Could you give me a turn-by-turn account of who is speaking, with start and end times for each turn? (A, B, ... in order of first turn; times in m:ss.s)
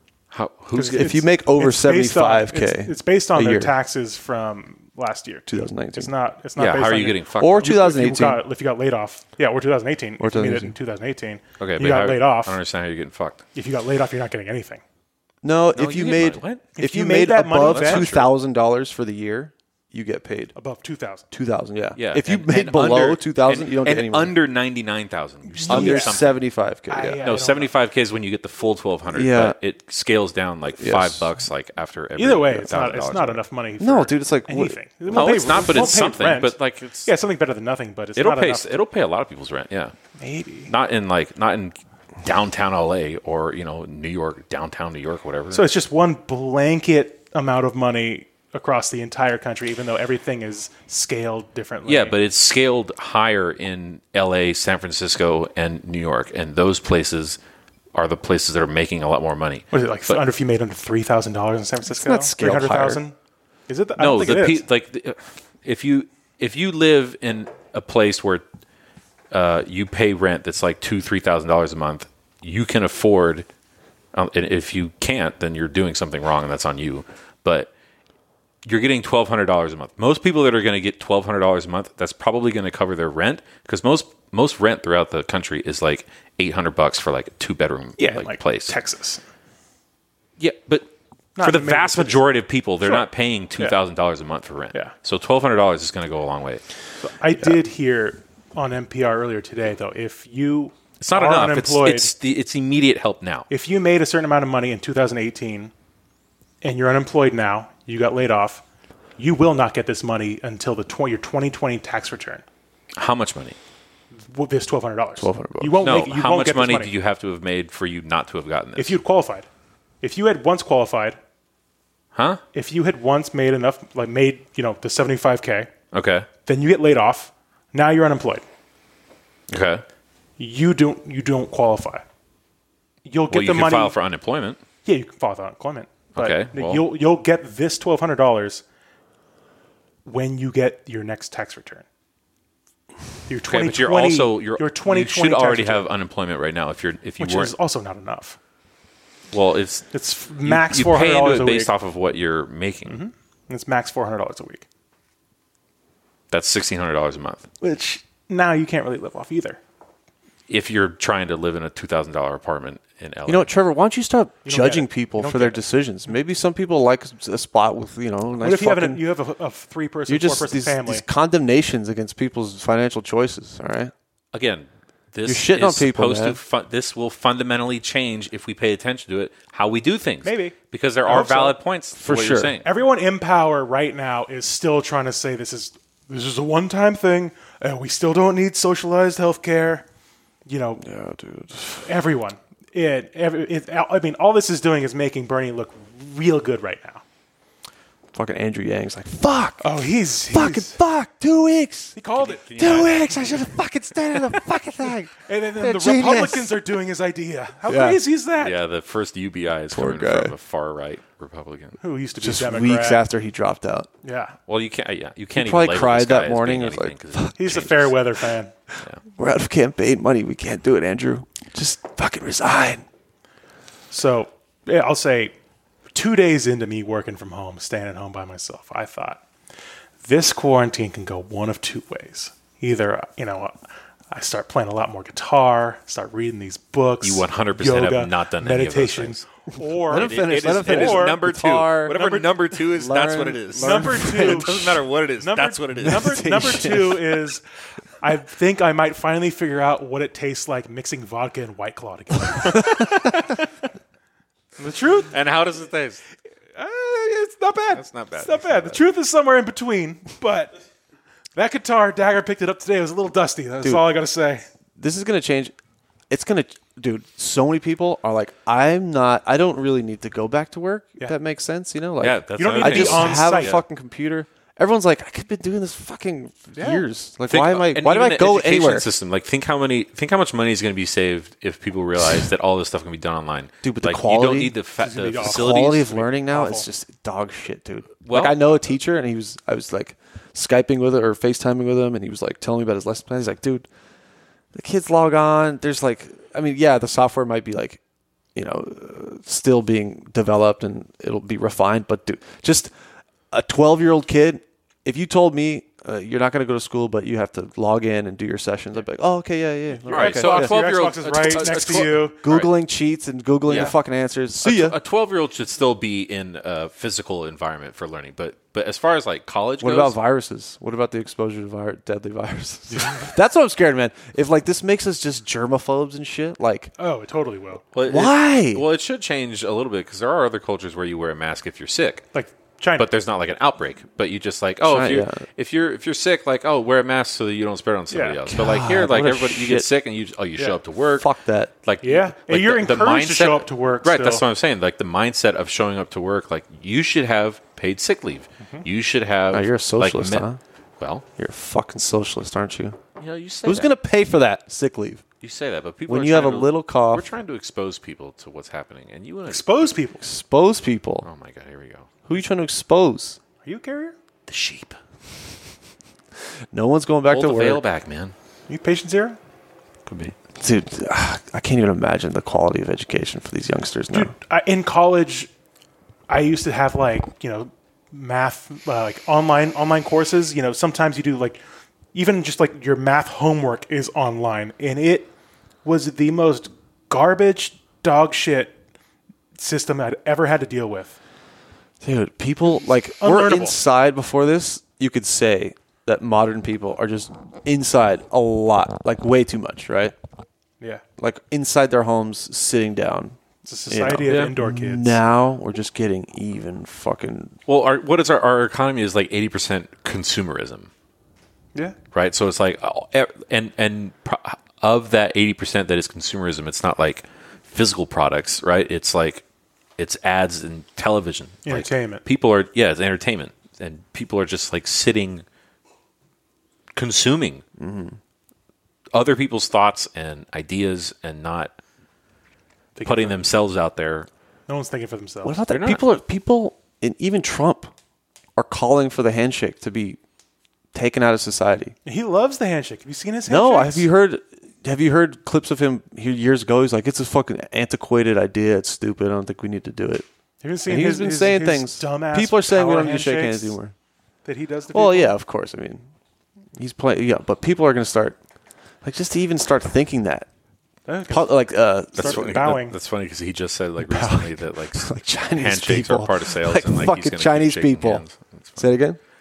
0:00.3-0:01.2 A
0:00.8-0:12.6 B
0:00.9-0:03.7 C
0:05.5-0:06.1 C
0:06.6-0:07.7 A
0:07.4-0:08.4 C
0:10.2-0:10.7 C
0:11.6-0:13.4 A
0:13.6-0:14.8 B
0:15.4-0:20.5 C
0:15.8-0:16.7 A
0:16.8-0:18.1 B
0:17.6-0:18.3 A
0:20.6-0:21.3 B
0:21.3-0:24.4 C
0:22.0-0:26.4 A
0:25.5-0:26.4 B
0:25.7-0:27.2 C
0:26.9-0:27.7 B
0:27.2-0:33.4 A
0:29.1-0:29.6 C
0:30.8-0:31.3 C
0:32.2-0:38.7 B
0:33.8-0:35.8 C
0:35.1-0:37.1 A
0:38.2-0:39.9 A
0:40.2-0:40.7 B
0:40.7-0:45.6 A
0:45.5-0:52.2 B
0:51.9-0:57.4 A
0:57.9-1:00.2 A
0:59.7-1:03.1 B
1:01.9-1:03.0 C
1:03.7-1:04.6 B
1:04.0-1:08.4 A
1:09.3-1:13.5 A
1:14.1-1:17.7 A
1:18.6-1:28.8 A
1:28.0-1:29.2 B
1:30.4-1:36.6 A
1:31.4-1:32.2 B
1:32.8-1:33.8 B
1:37.0-1:42.1 B
1:41.0-1:43.5 A
1:43.5-1:45.7 B
1:46.6-1:48.6 B
1:49.2-1:52.4 B
1:53.0-1:53.6 A
1:54.2-1:56.9 B
1:55.2-1:55.8 C
1:55.8-1:59.0 A
1:58.8-1:59.5 B
2:00.0-2:01.2 B
2:02.1-2:02.4 A
2:02.5-2:05.7 B
2:05.9-2:06.3 A
2:06.5-2:08.4 B
2:09.5-2:09.8 A
2:10.4-2:12.0 B
2:13.1-2:14.0 B
2:13.3-2:14.6 A
2:14.8-2:18.6 B
2:16.2-2:16.8 A
2:20.0-2:21.8 B
2:23.3-2:25.9 B
2:23.5-2:27.5 A
2:27.2-2:28.4 B
2:29.3-2:29.9 A
2:29.9-2:31.7 B
2:30.4-2:33.0 A
2:32.9-2:34.6 B
2:36.3-2:37.5 A
2:37.6-2:39.6 B
2:40.5-2:43.5 A
2:43.3-2:49.0 C
2:44.4-2:45.6 B
2:48.4-2:51.0 B
2:50.1-2:53.9 C
2:54.3-3:02.7 A
2:55.2-2:56.4 C
3:00.2-3:01.6 B
3:02.0-3:02.6 C
3:02.6-3:09.8 B
3:10.5-3:10.8 B
3:10.8-3:11.9 C
3:11.8-3:17.0 B
3:18.1-3:19.7 C
3:19.6-3:20.7 B
3:20.3-3:22.0 C
3:22.0-3:22.9 B
3:22.2-3:23.4 A
3:22.6-3:26.5 C
3:25.2-3:28.6 B
3:27.7-3:28.0 C
3:28.4-3:31.8 A
3:29.7-3:30.4 C
3:31.8-3:33.0 B
3:32.2-3:33.9 C
3:34.0-3:34.4 B
3:34.5-3:38.0 A
3:35.4-3:37.7 C
3:37.4-3:38.5 B
3:39.2-3:42.8 C
3:43.9-3:45.3 B
3:45.9-3:49.2 B
3:50.0-3:53.6 B
3:54.1-4:01.2 B
3:57.0-3:59.2 A
3:59.8-4:04.7 C
3:59.9-4:06.2 A
4:03.6-4:07.4 B
4:05.8-4:07.0 C
4:08.0-4:13.3 B
4:14.6-4:15.1 B
4:15.1-4:16.0 A
4:16.6-4:20.5 B
4:17.7-4:18.8 A
4:21.4-4:24.5 B
4:23.6-4:23.9 C
4:24.8-4:25.5 C
4:26.1-4:38.9 C
4:32.0-4:33.6 A
4:32.4-4:33.6 B
4:36.6-4:36.8 B
4:37.3-4:46.0 A
4:43.6-4:44.6 C
4:44.8-4:46.7 B
4:45.2-4:53.7 C
4:48.0-4:48.5 A
4:54.5-4:57.8 C
4:58.4-5:02.7 C
5:03.3-5:10.6 C
5:09.8-5:12.2 B
5:09.9-5:12.5 A
5:11.4-5:14.8 C
5:13.5-5:13.8 A
5:14.4-5:20.0 A
5:19.6-5:26.7 C
5:26.8-5:27.6 B
5:27.7-5:32.0 A
5:27.9-5:28.6 C
5:32.1-5:32.9 B
5:32.8-5:41.1 A
5:34.6-5:35.2 C
5:37.9-5:38.2 B
5:38.3-5:39.7 C
5:41.0-5:41.5 C
5:41.6-5:50.2 A
5:41.8-5:44.2 B
5:48.4-5:48.7 B
5:49.3-5:50.4 C
5:50.8-5:51.0 A
5:51.2-5:52.8 C
5:53.0-5:53.7 A
5:53.4-5:55.0 C
5:55.2-5:59.7 A
5:55.9-5:57.1 C
5:59.3-6:00.0 B
6:00.0-6:01.1 C
6:01.0-6:01.9 A
6:02.1-6:03.2 C
6:03.4-6:04.0 B
6:04.3-6:04.8 A
6:06.5-6:07.6 C
6:07.1-6:08.2 A
6:08.5-6:09.2 B
6:09.9-6:10.2 A
6:10.4-6:14.1 C
6:13.9-6:15.3 B
6:16.1-6:21.4 B
6:21.9-6:25.1 B
6:25.6-6:28.6 B
6:29.4-6:31.0 B
6:31.8-6:39.9 C
6:33.0-6:33.6 B
6:41.0-6:43.2 C
6:43.4-6:45.0 B
6:43.7-6:47.3 C
6:47.5-6:50.7 A
6:51.9-6:59.2 A
6:59.8-7:05.2 A
7:01.4-7:02.0 B
7:06.7-7:07.4 A
7:07.6-7:08.0 C
7:08.9-7:11.6 A
7:12.8-7:13.3 B
7:12.8-7:14.1 A
7:14.5-7:15.4 B
7:15.2-7:17.7 C
7:15.5-7:15.8 A
7:18.4-7:20.0 C
7:20.7-7:21.8 C
7:21.8-7:23.9 B
7:23.3-7:30.1 C
7:30.4-7:33.6 B
7:30.7-7:33.7 C
7:34.2-7:35.2 B
7:34.7-7:35.8 C
7:36.6-7:38.2 C
7:38.8-7:40.3 C
7:40.9-7:41.4 B
7:41.1-7:42.5 C
7:42.0-7:42.8 B
7:42.0-7:48.7 A
7:43.8-7:48.0 C
7:48.6-7:49.0 C